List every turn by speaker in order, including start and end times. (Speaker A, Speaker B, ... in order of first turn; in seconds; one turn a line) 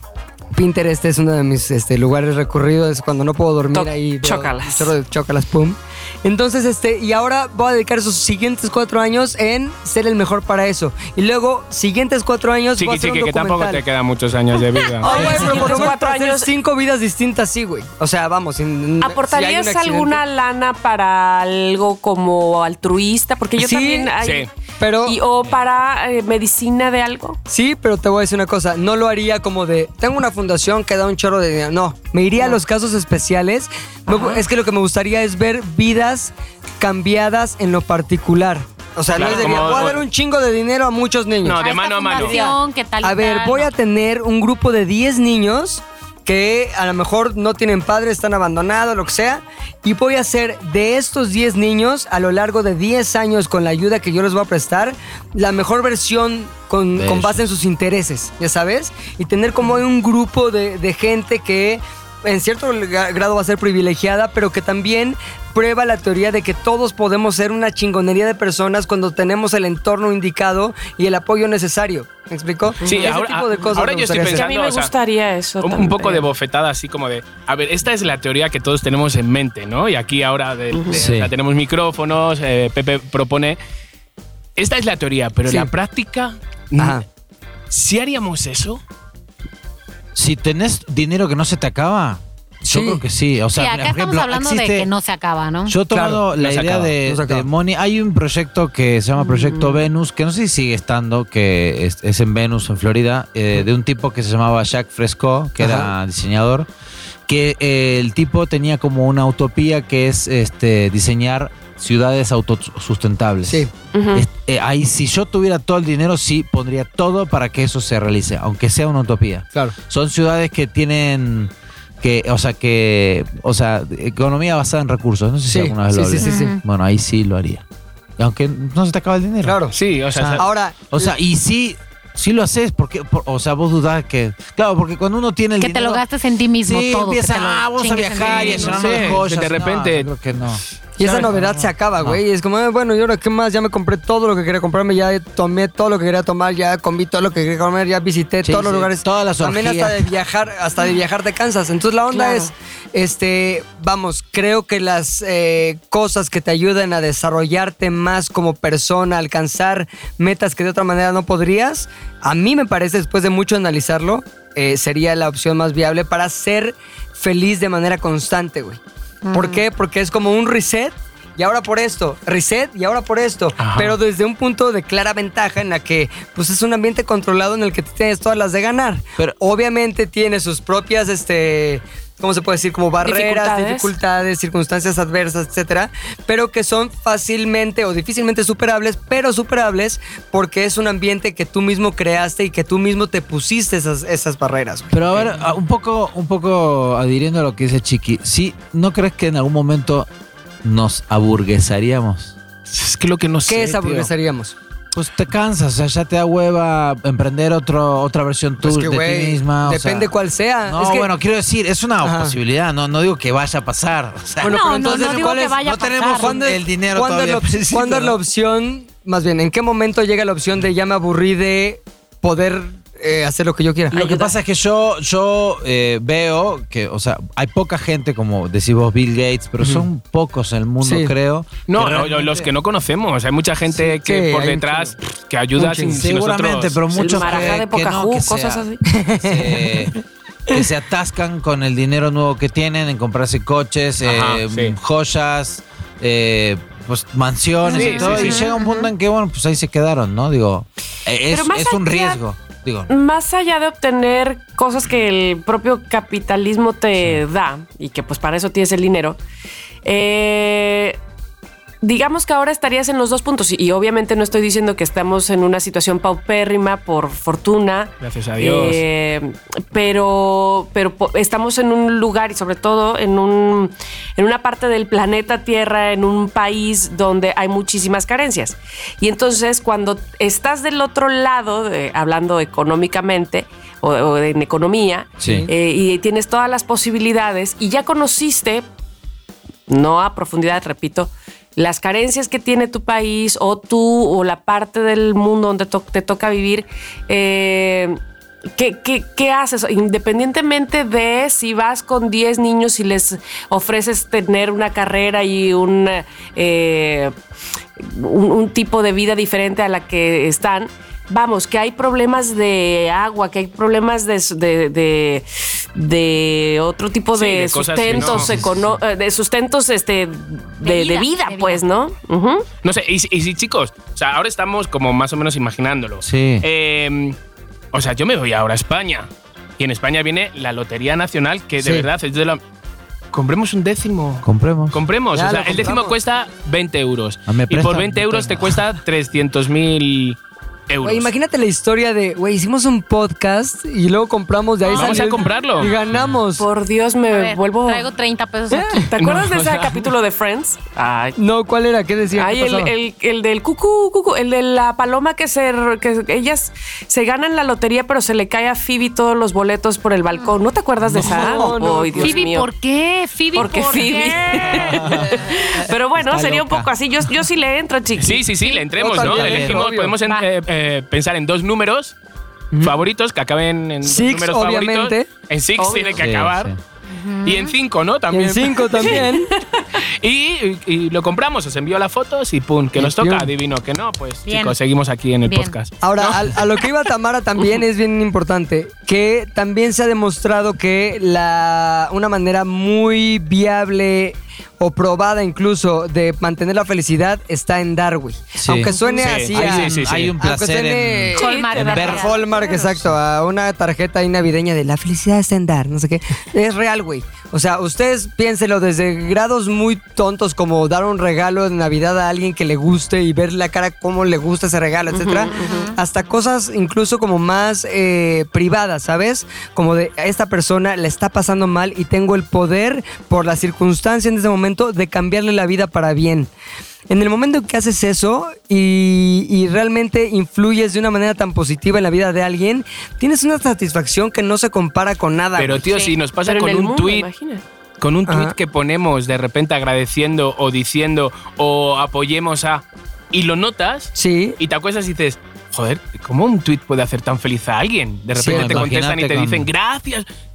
Speaker A: 0.5-13.8
Speaker B: 3.7-4.9
Speaker C: 12.8-15.3
Speaker A: 15.0-20.2
Speaker B: 15.0-16.5
Speaker D: 15.1-15.8
Speaker B: 19.0-24.5
Speaker A: 23.6-24.1
Speaker C: 24.2-24.5
Speaker A: 24.8-25.2
Speaker B: 25.0-27.4
Speaker A: 27.5-41.6
Speaker B: 34.1-34.4
Speaker C: 39.1-40.0
Speaker C: 41.4-42.4
Speaker E: 41.6-43.7
Speaker A: 42.1-74.5
Speaker D: 56.9-57.5
Speaker B: 72.8-73.2
Speaker C: 72.8-74.9
Speaker B: 74.2-76.3
Speaker C: 75.6-83.6
Speaker B: 80.7-81.0
Speaker D: 80.9-81.3
Speaker C: 84.6-87.0
Speaker A: 86.8-87.0
Speaker C: 87.7-88.8
Speaker D: 90.2-94.9
Speaker A: 92.7-93.0
Speaker E: 93.5-95.8
Speaker D: 95.7-106.7
Speaker A: 95.9-96.3
Speaker C: 96.4-96.9
Speaker A: 96.9-97.5
Speaker B: 99.4-99.8
Speaker A: 105.6-105.9
Speaker D: 107.3-127.7
Speaker B: 113.9-114.3
Speaker A: 125.5-126.6
Speaker E: 126.2-126.6
Speaker D: 128.2-129.6
Speaker A: 129.4-129.8
Speaker C: 129.7-130.4
Speaker D: 130.1-136.0
Speaker A: 130.4-131.1
Speaker E: 135.6-138.9
Speaker D: 136.7-142.2
Speaker C: 138.2-140.1
Speaker A: 138.8-139.2
Speaker A: 141.0-168.8
Speaker D: 148.4-150.1
Speaker B: 152.1-152.5
Speaker E: 169.2-169.6
Speaker A: 169.3-195.3
Speaker C: 173.6-174.0
Speaker B: 183.0-183.9
Speaker D: 194.9-200.1
Speaker D: 200.6-202.4
Speaker C: 202.7-204.1
Speaker A: 203.5-204.6
Speaker D: 204.9-210.1
Speaker A: 208.6-211.1
Speaker D: 210.7-218.2
Speaker A: 212.0-212.3
Speaker A: 214.4-224.1
Speaker E: 214.4-216.4
Speaker B: 223.9-224.3
Speaker D: 223.9-232.5
Speaker A: 230.8-231.1
Speaker C: 231.7-237.4
Speaker A: 233.8-234.9
Speaker A: 235.6-236.0
Speaker D: 235.8-238.6
Speaker B: 236.9-238.8
Speaker A: 238.9-239.8
Speaker D: 239.2-240.0
Speaker D: 240.5-252.9
Speaker C: 244.0-244.8
Speaker E: 247.7-248.9
Speaker C: 247.7-248.4
Speaker B: 251.3-252.2
Speaker B: 252.9-259.2
Speaker B: 259.8-261.0
Speaker B: 261.8-288.7
Speaker C: 268.0-268.8
Speaker D: 285.2-285.5
Speaker A: 285.2-285.5
Speaker B: 289.7-298.0
Speaker B: 298.6-307.1
Speaker B: 307.8-322.5
Speaker C: 317.1-318.3
Speaker D: 317.9-318.8
Speaker E: 320.6-321.7
Speaker C: 322.6-327.2
Speaker D: 326.0-326.5
Speaker C: 327.7-329.1
Speaker C: 329.6-332.4
Speaker A: 331.6-331.9
Speaker C: 333.1-340.2
Speaker D: 334.2-334.8
Speaker A: 335.1-335.9
Speaker D: 337.3-338.6
Speaker C: 340.7-341.1
Speaker A: 340.8-346.4
Speaker C: 344.7-345.7
Speaker E: 344.7-345.1
Speaker D: 345.9-346.2
Speaker B: 346.4-347.9
Speaker E: 347.1-348.9
Speaker A: 348.5-348.9
Speaker B: 348.9-351.2
Speaker C: 349.0-349.9
Speaker A: 351.2-352.7
Speaker B: 352.1-362.5
Speaker D: 360.8-361.3
Speaker A: 361.0-362.2
Speaker E: 362.0-364.7
Speaker B: 363.3-368.3
Speaker D: 364.4-365.1
Speaker D: 366.0-366.7
Speaker C: 368.0-372.0
Speaker A: 368.8-370.0
Speaker D: 369.0-369.6
Speaker C: 372.6-376.5
Speaker A: 373.9-375.1
Speaker B: 375.6-376.0
Speaker D: 375.9-376.6
Speaker E: 376.9-377.5
Speaker C: 377.2-379.0
Speaker A: 378.1-379.3
Speaker B: 378.8-379.6
Speaker C: 379.8-386.2
Speaker A: 382.8-383.3
Speaker E: 384.3-384.6
Speaker E: 385.2-385.6
Speaker A: 385.8-426.3
Speaker D: 398.4-402.1
Speaker C: 398.9-400.1
Speaker E: 401.1-402.5
Speaker B: 401.2-402.3
Speaker B: 414.9-415.7
Speaker E: 415.3-415.8
Speaker A: 426.9-435.7
Speaker C: 435.4-437.1
Speaker E: 435.7-435.9
Speaker B: 436.2-437.4
Speaker C: 437.8-450.1
Speaker A: 438.1-438.4
Speaker A: 444.0-444.4
Speaker A: 448.1-448.7
Speaker D: 448.3-449.5